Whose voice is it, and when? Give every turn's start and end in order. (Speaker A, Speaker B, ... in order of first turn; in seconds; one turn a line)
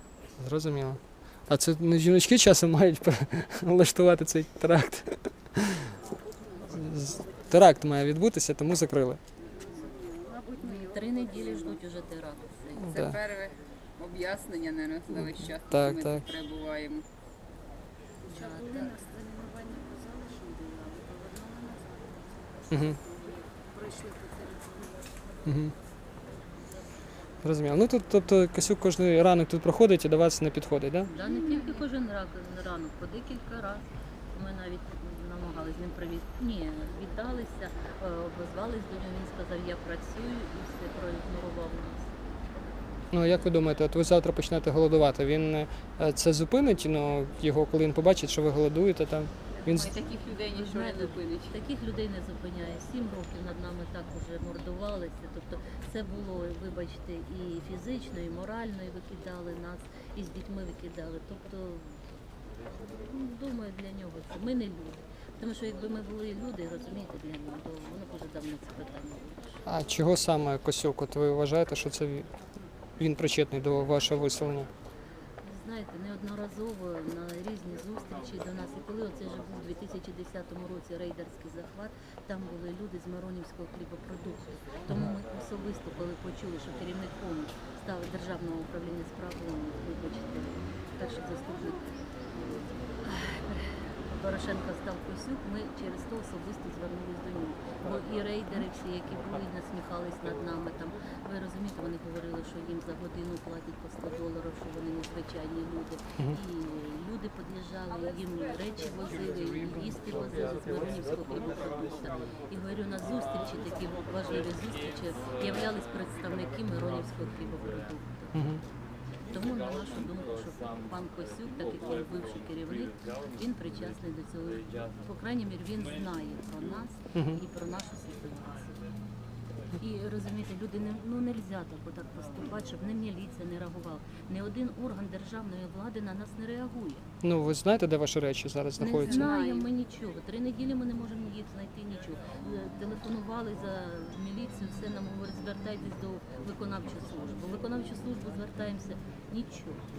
Speaker A: 0.4-6.0
Speaker B: 6.1-7.3
Speaker A: 6.7-9.2
Speaker B: 9.5-11.8
Speaker C: 10.6-13.0
Speaker A: 12.8-13.2
Speaker D: 12.9-17.1
Speaker A: 15.1-16.3
Speaker B: 18.2-25.2
Speaker C: 18.3-18.9
Speaker A: 22.7-23.0
Speaker A: 25.4-25.7
Speaker A: 27.4-31.1
Speaker C: 31.1-42.1
Speaker B: 31.1-31.8
Speaker A: 43.1-49.9
Speaker D: 49.7-51.5
Speaker C: 50.4-62.0
Speaker C: 63.0-69.6
Speaker A: 69.7-72.3
Speaker A: 73.0-74.7
Speaker C: 75.4-91.8
Speaker A: 84.9-85.2
Speaker C: 93.0-118.3
Speaker A: 118.3-118.6
Speaker C: 119.3-128.9
Speaker A: 127.1-127.4
Speaker C: 129.8-137.1
Speaker A: 137.2-139.3
Speaker C: 138.8-149.8
Speaker D: 139.1-139.7